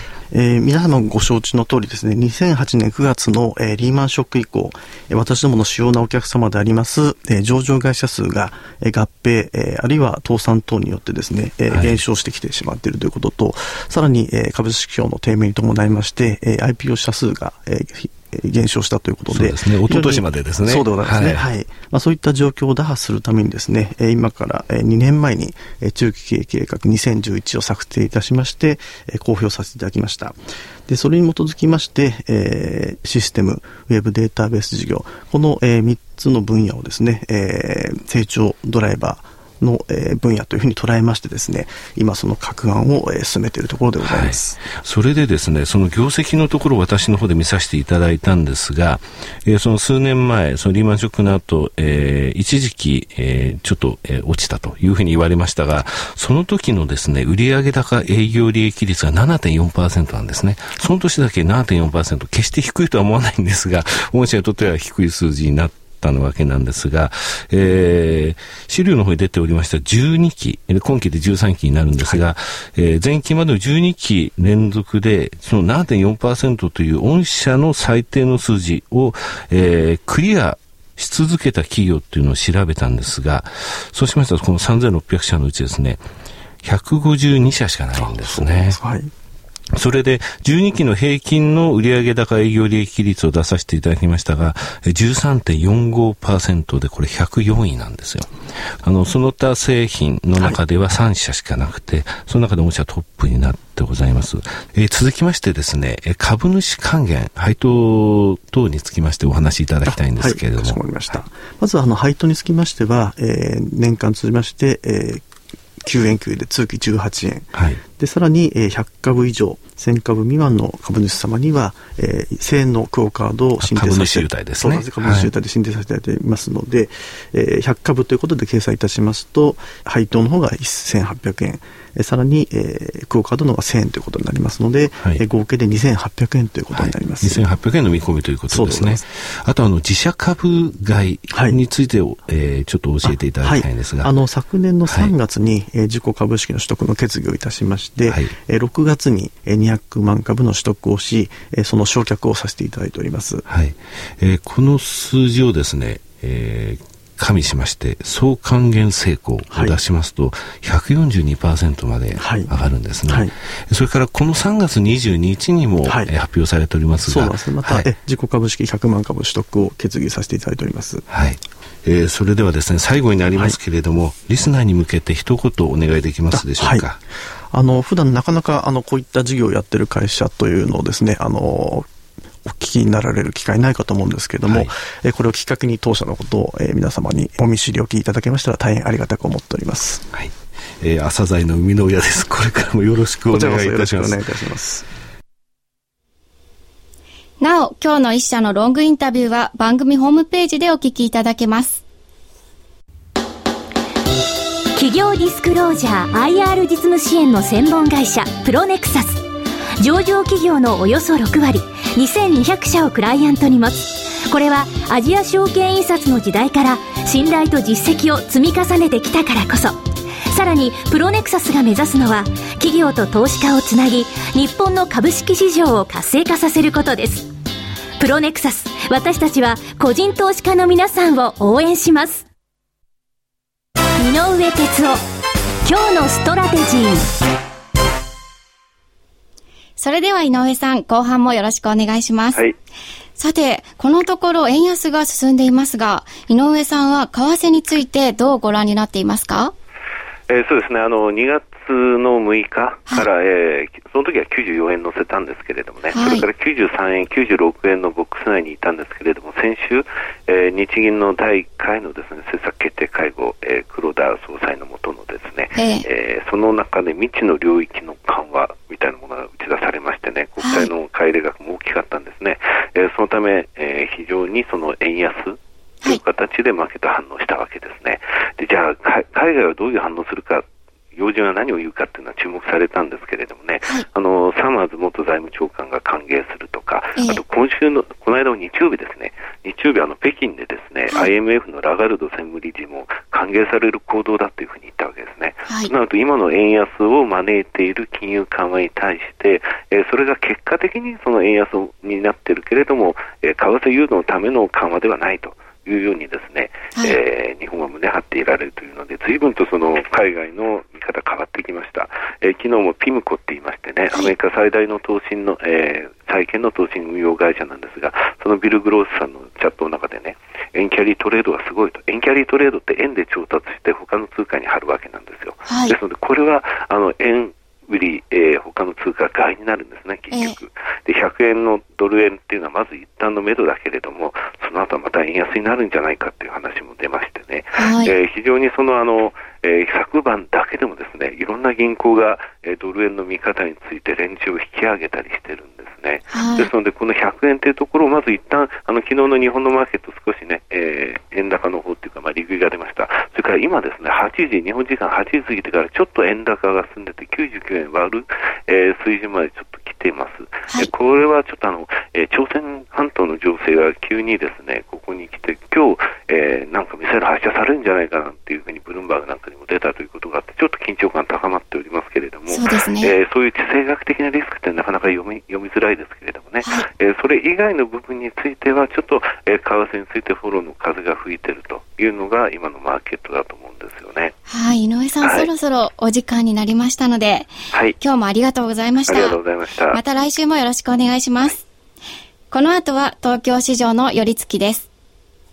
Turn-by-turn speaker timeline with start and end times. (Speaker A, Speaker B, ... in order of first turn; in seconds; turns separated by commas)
Speaker A: 0.3-44.6, Speaker B: 11.7-12.0, Speaker B: 19.3-21.4, Speaker B: 44.0-86.0, Speaker B: 86.6-88.8, Speaker A: 87.9-89.1, Speaker B: 89.7-98.3, Speaker B: 98.8-111.2, Speaker A: 109.8-115.2, Speaker A: 115.8-137.4, Speaker B: 117.5-117.8, Speaker B: 123.6-125.3, Speaker B: 136.7-144.1, Speaker A: 138.5-139.0, Speaker A: 141.3-141.6, Speaker A: 143.1-153.4, Speaker B: 153.5-167.9, Speaker A: 162.2-162.5, Speaker A: 165.8-166.1, Speaker A: 167.1-171.0, Speaker B: 171.1-177.0, Speaker A: 176.3-176.8, Speaker A: 177.5-181.9, Speaker A: 182.4-190.0, Speaker B: 190.1-194.2, Speaker A: 193.3-194.9, Speaker C: 197.4-201.8, Speaker D: 204.7-209.2, Speaker D: 209.8-227.3, Speaker D: 228.0-232.2, Speaker D: 234.0-235.0, Speaker D: 235.6-237.1, Speaker C: 239.8-242.4, Speaker C: 243.2-249.5, Speaker E: 250.3-384.1, Speaker C: 255.9-256.3, Speaker C: 265.5-265.8, Speaker C: 270.4-270.7, Speaker C: 286.9-287.2, Speaker C: 325.5-325.8, Speaker C: 337.6-337.9, Speaker C: 346.1-346.5, Speaker C: 372.3-372.9, Speaker C: 384.3-389.2, Speaker E: 385.0-385.3, Speaker E: 388.9-389.8, Speaker C: 389.7-391.4, Speaker C: 392.3-394.7